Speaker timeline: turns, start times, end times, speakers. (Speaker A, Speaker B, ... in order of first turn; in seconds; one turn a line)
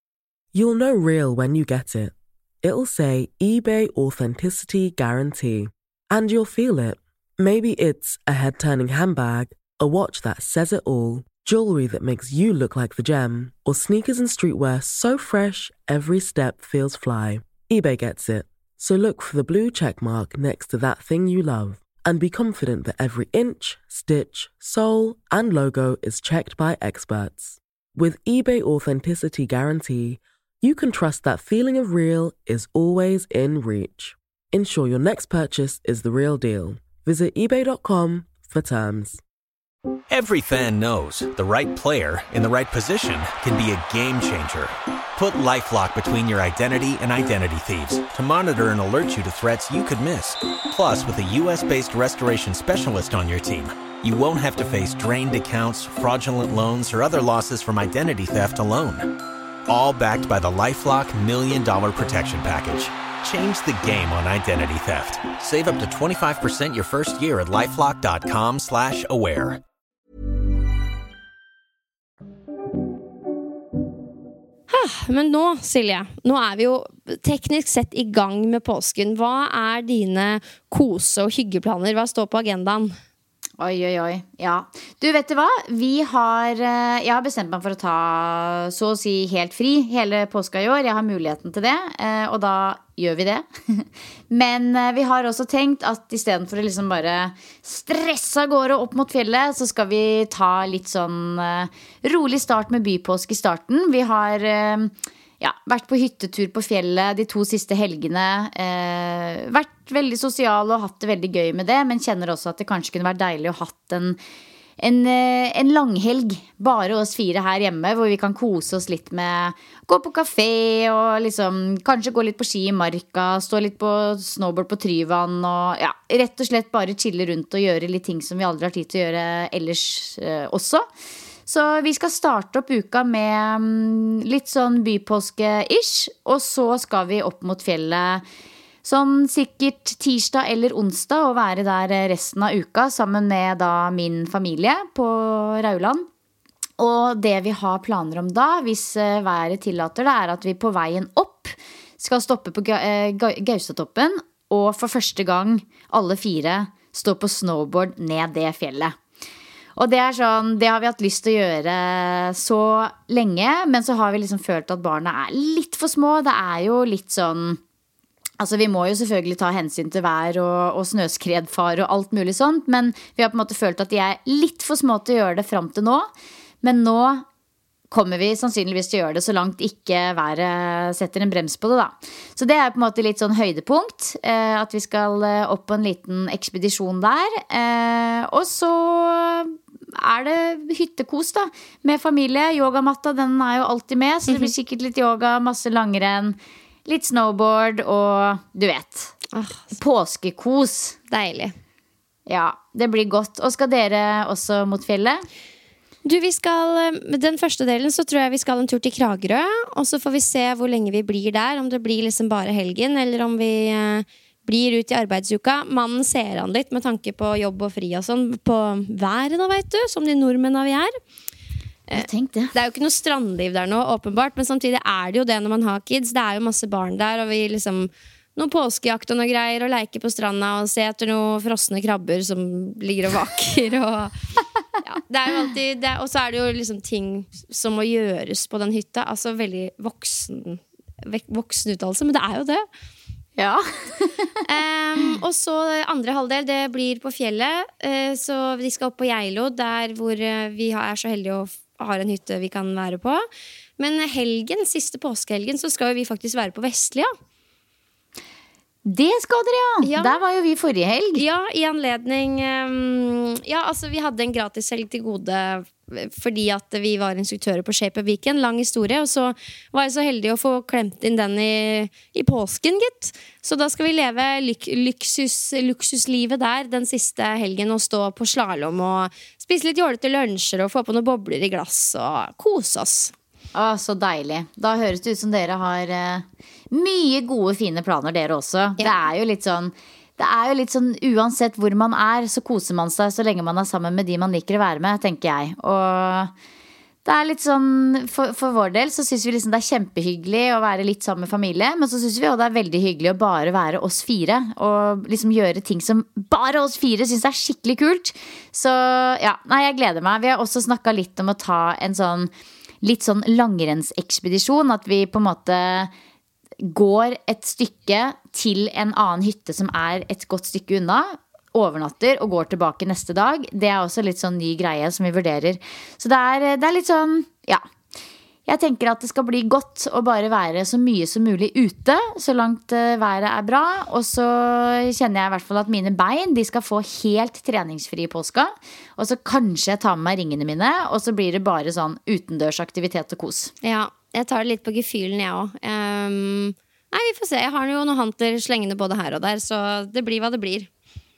Speaker A: 0.5-39.2
Speaker B: 40.1-69.6
Speaker C: 74.7-83.0
Speaker D: 83.6-114.2
Speaker D: 114.8-130.9
Speaker D: 131.5-138.2
Speaker D: 138.8-146.1
Speaker D: 146.8-159.0
Speaker D: 159.8-167.6
Speaker D: 168.4-176.1
Speaker D: 176.6-177.2
Speaker D: 177.9-199.1
Speaker C: 199.3-199.8
Speaker D: 199.7-201.0
Speaker C: 201.1-201.6
Speaker D: 202.3-205.3
Speaker C: 206.0-220.9
Speaker C: 221.9-234.1
Speaker D: 221.9-222.5
Speaker C: 234.8-242.7
Speaker D: 243.4-244.3
Speaker C: 244.4-253.2
Speaker C: 253.8-257.1
Speaker D: 258.9-261.2
Speaker C: 259.8-260.2
Speaker C: 261.2-283.1
Speaker D: 283.6-296.3
Speaker D: 297.1-312.3
Speaker D: 312.8-315.9
Speaker D: 316.6-327.6
Speaker D: 328.5-343.5
Speaker C: 343.6-350.7